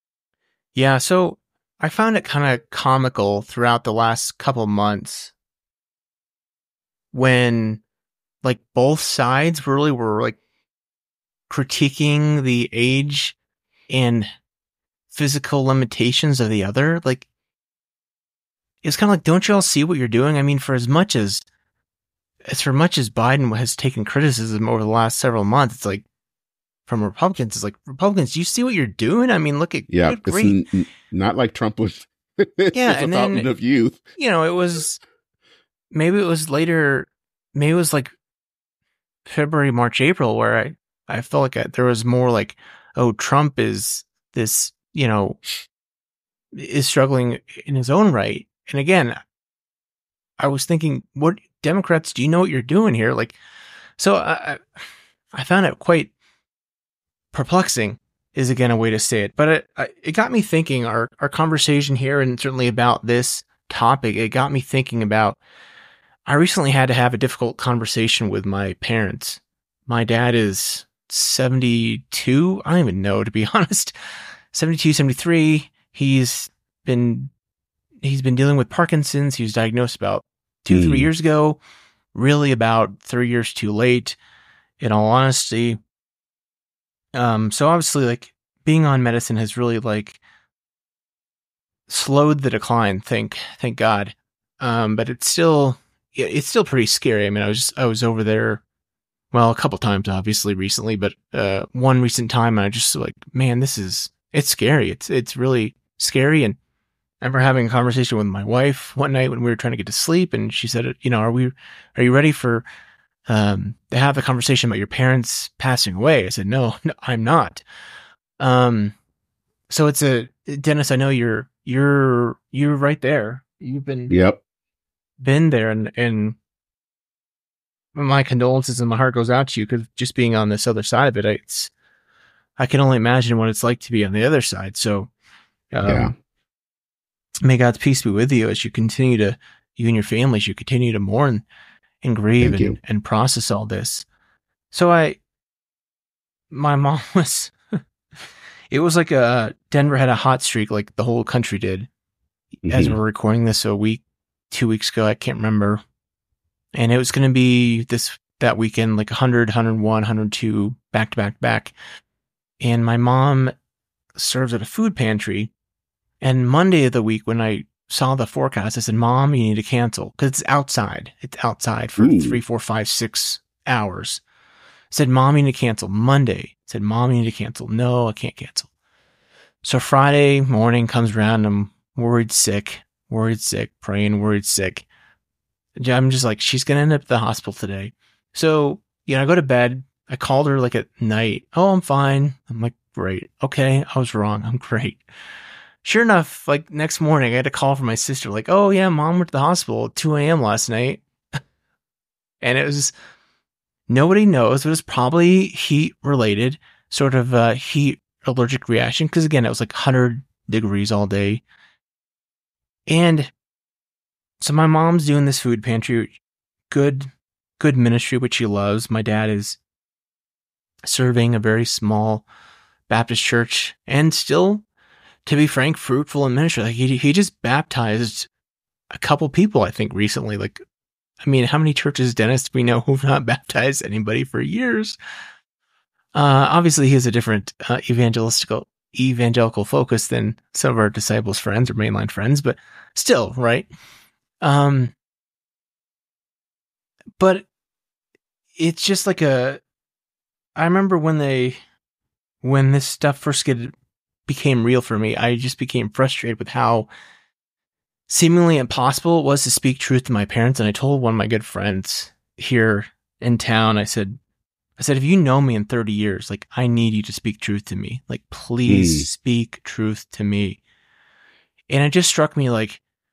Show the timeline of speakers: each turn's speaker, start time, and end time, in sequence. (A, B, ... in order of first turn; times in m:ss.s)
0:00.8-0:05.3 A
0:07.1-0:07.8 A
0:08.4-0:10.4 A
0:11.5-0:13.4 A
0:13.9-0:14.3 A
0:15.1-0:17.3 A
0:18.8-0:21.4 A
0:22.5-0:26.0 A
0:26.9-0:30.6 A
0:29.9-0:34.0 B
0:32.7-0:33.5 A
0:34.2-0:35.0 A
0:35.9-0:38.1 A
0:39.3-0:45.4 A
0:46.5-0:49.2 A
0:50.4-0:53.4 A
0:54.0-0:54.6 A
0:55.3-0:56.1 A
0:57.3-1:05.4 A
1:06.3-1:14.0 A
1:14.5-1:17.3 A
1:18.0-1:21.6 A
1:20.7-1:21.1 B
1:22.1-1:24.2 A
1:24.8-1:25.8 A
1:27.2-1:30.2 A
1:31.9-1:38.6 A
1:39.3-1:46.6 A
1:47.2-1:52.7 A
1:53.3-1:57.6 A
1:58.4-1:59.0 A
1:59.7-2:04.1 A
2:04.1-2:04.4 B
2:05.2-2:06.4 A
2:08.0-2:11.7 A
2:12.6-2:15.1 A
2:15.7-2:16.1 A
2:15.9-2:16.1 B
2:17.4-2:21.4 A
2:22.0-2:24.1 A
2:22.4-2:22.8 B
2:24.7-2:25.2 A
2:26.5-2:27.8 A
2:28.7-2:31.9 A
2:32.7-2:33.0 B
2:32.7-2:35.8 A
2:36.8-2:41.7 A
2:42.6-2:43.5 A
2:44.2-2:45.5 A
2:46.2-2:54.2 A
2:52.0-2:52.4 B
2:54.9-2:58.7 A
2:59.6-3:04.9 A
3:05.8-3:15.0 A
3:15.8-3:21.0 A
3:22.4-3:22.9 A
3:23.9-3:31.4 A
3:32.9-3:33.3 A
3:34.4-3:36.1 A
3:36.7-3:39.6 A
3:40.8-3:42.2 A
3:42.9-3:44.6 A
3:45.3-3:48.3 A
3:48.9-3:50.6 A
3:51.2-3:55.0 A
3:56.1-4:03.7 A
4:04.4-4:04.9 A
4:07.2-4:07.5 A
4:08.6-4:09.6 A
4:10.6-4:11.6 A
4:12.4-4:13.7 A
4:14.3-4:16.9 A
4:18.1-4:24.2 A
4:24.8-4:30.6 A
4:28.7-4:29.1 B
4:31.7-4:32.8 A